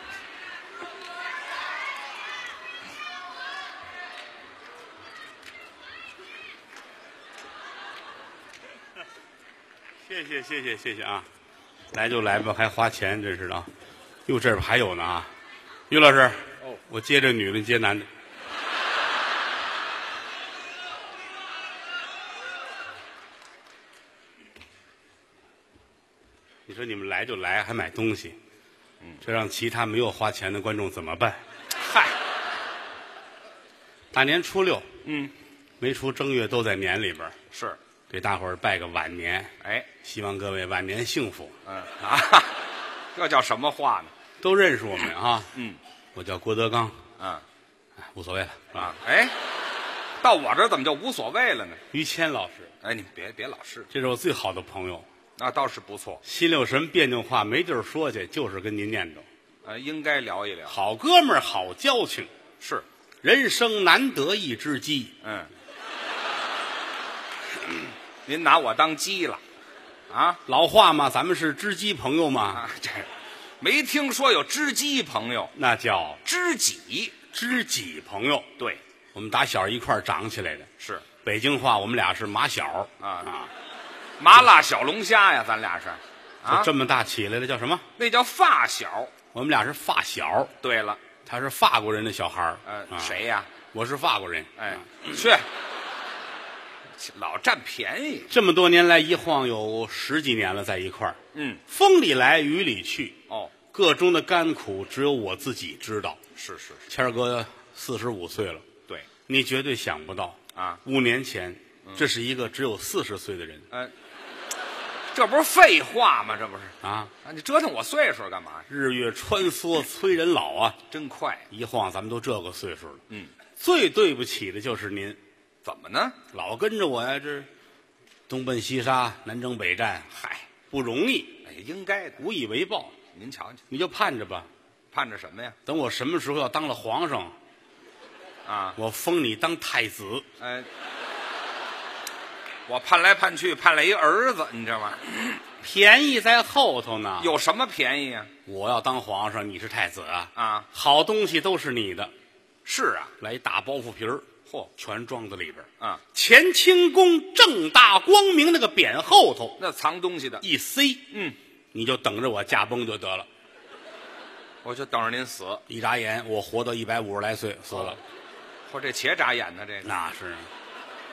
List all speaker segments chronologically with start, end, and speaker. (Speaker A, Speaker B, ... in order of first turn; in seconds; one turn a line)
Speaker A: 10.0-11.2
Speaker A: 11.9-13.7
Speaker A: 14.2-15.3
Speaker A: 15.9-18.1
Speaker A: 26.6-28.4
Speaker A: 29.2-31.4
Speaker B: 31.8-32.1
Speaker A: 34.1-34.9
Speaker B: 35.0-35.3
Speaker A: 35.8-37.4
Speaker B: 37.5-37.8
Speaker A: 38.1-39.5
Speaker B: 39.6-39.9
Speaker A: 40.0-41.5
Speaker B: 41.6-42.6
Speaker B: 43.1-44.1
Speaker A: 44.4-45.5
Speaker B: 45.5-45.8
Speaker A: 46.1-47.0
Speaker B: 47.2-47.4
Speaker A: 48.0-48.9
Speaker B: 48.8-49.3
Speaker B: 50.2-51.8
Speaker A: 51.9-52.7
Speaker B: 52.8-53.9
Speaker A: 53.9-55.0
Speaker B: 55.4-56.2
Speaker A: 56.2-59.2
Speaker B: 59.6-60.8
Speaker A: 60.7-62.3
Speaker B: 62.6-62.9
Speaker A: 63.2-65.1
Speaker B: 65.2-65.5
Speaker B: 68.2-69.4
Speaker B: 70.1-70.4
Speaker A: 70.5-72.6
Speaker B: 72.5-73.1
Speaker B: 73.6-75.5
Speaker A: 75.5-76.2
Speaker B: 76.2-77.2
Speaker A: 77.3-78.5
Speaker A: 79.1-80.7
Speaker B: 80.8-81.0
Speaker A: 81.2-83.5
Speaker B: 83.0-83.3
Speaker B: 84.2-86.7
Speaker A: 86.5-87.8
Speaker B: 88.0-89.1
Speaker A: 89.3-90.5
Speaker B: 90.6-91.0
Speaker A: 91.2-93.2
Speaker B: 92.6-93.5
Speaker A: 93.7-95.0
Speaker B: 94.6-95.5
Speaker B: 97.0-98.3
Speaker A: 98.3-103.2
Speaker B: 101.3-101.6
Speaker B: 103.3-103.5
Speaker A: 103.7-106.2
Speaker B: 106.3-106.9
Speaker A: 106.9-108.6
Speaker A: 109.3-113.7
Speaker B: 110.5-110.8
Speaker B: 115.1-118.7
Speaker A: 116.8-117.1
Speaker A: 118.7-120.8
Speaker B: 120.9-121.5
Speaker A: 121.5-123.0
Speaker A: 123.6-125.2
Speaker B: 125.6-126.2
Speaker A: 126.3-127.5
Speaker A: 128.3-130.1
Speaker B: 130.1-130.5
Speaker A: 130.7-131.4
Speaker B: 131.4-132.2
Speaker A: 132.2-132.9
Speaker B: 133.1-133.6
Speaker A: 133.7-134.5
Speaker B: 134.9-135.6
Speaker A: 135.7-137.3
Speaker B: 138.4-138.8
Speaker A: 138.8-140.2
Speaker B: 140.4-140.7
Speaker B: 142.7-145.4
Speaker A: 145.6-147.3
Speaker B: 147.2-148.3
Speaker A: 148.4-152.1
Speaker B: 150.3-150.7
Speaker B: 152.7-153.1
Speaker A: 153.2-159.6
Speaker B: 159.6-160.4
Speaker A: 160.4-161.1
Speaker B: 161.1-161.3
Speaker A: 161.7-163.3
Speaker B: 164.6-165.6
Speaker A: 165.7-168.0
Speaker B: 167.7-168.0
Speaker B: 168.7-169.9
Speaker A: 169.8-170.5